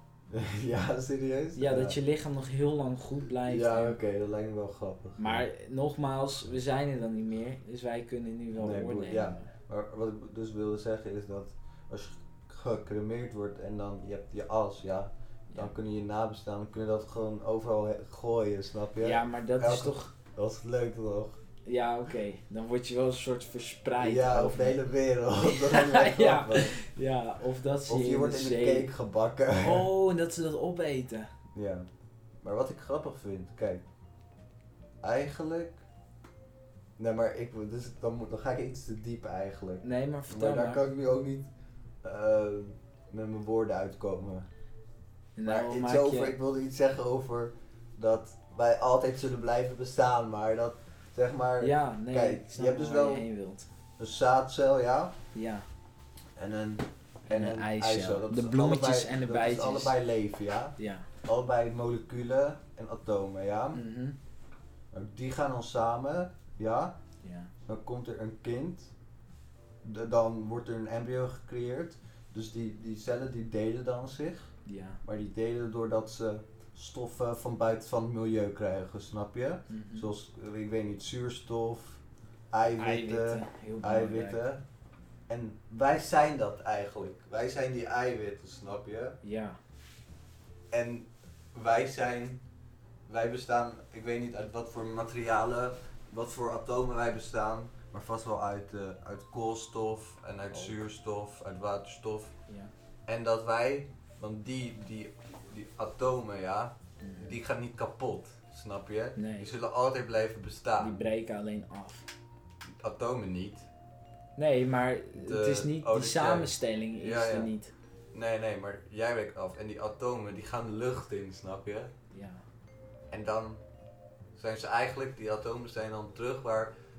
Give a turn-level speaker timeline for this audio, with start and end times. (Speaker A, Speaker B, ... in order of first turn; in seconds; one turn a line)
Speaker A: 0.3-2.0
Speaker B: 1.6-4.0
Speaker A: 3.4-5.5
Speaker B: 5.2-9.5
Speaker A: 8.6-21.4
Speaker B: 19.0-20.1
Speaker B: 21.6-24.8
Speaker A: 24.0-26.8
Speaker B: 25.4-28.9
Speaker A: 27.9-29.9
Speaker B: 29.6-31.3
Speaker A: 31.5-31.9
Speaker A: 32.4-33.8
Speaker A: 35.0-35.8
Speaker A: 37.0-41.5
Speaker B: 39.8-40.8
Speaker A: 42.0-44.5
Speaker B: 45.4-46.4
Speaker A: 45.5-53.3
Speaker B: 51.6-53.7
Speaker A: 54.0-55.1
Speaker B: 55.3-55.6
Speaker A: 56.4-63.8
Speaker B: 57.3-59.9
Speaker B: 60.8-61.1
Speaker B: 63.7-64.2
Speaker A: 64.9-67.0
Speaker B: 67.2-67.5
Speaker A: 67.7-68.9
Speaker A: 69.8-74.5
Speaker B: 74.6-75.0
Speaker A: 75.0-84.6
Speaker B: 79.7-80.1
Speaker B: 82.8-84.4
Speaker A: 85.3-89.2
Speaker B: 89.2-89.6
Speaker A: 90.7-92.4
Speaker A: 93.1-102.3
Speaker B: 100.5-100.8
Speaker A: 103.1-111.0
Speaker B: 107.0-107.3
Speaker B: 109.2-109.5
Speaker B: 110.8-112.1
Speaker A: 112.8-113.7
Speaker B: 114.4-117.7
Speaker A: 115.1-117.5
Speaker A: 118.1-121.9
Speaker B: 122.1-122.4
Speaker A: 123.1-123.6
Speaker A: 124.3-126.7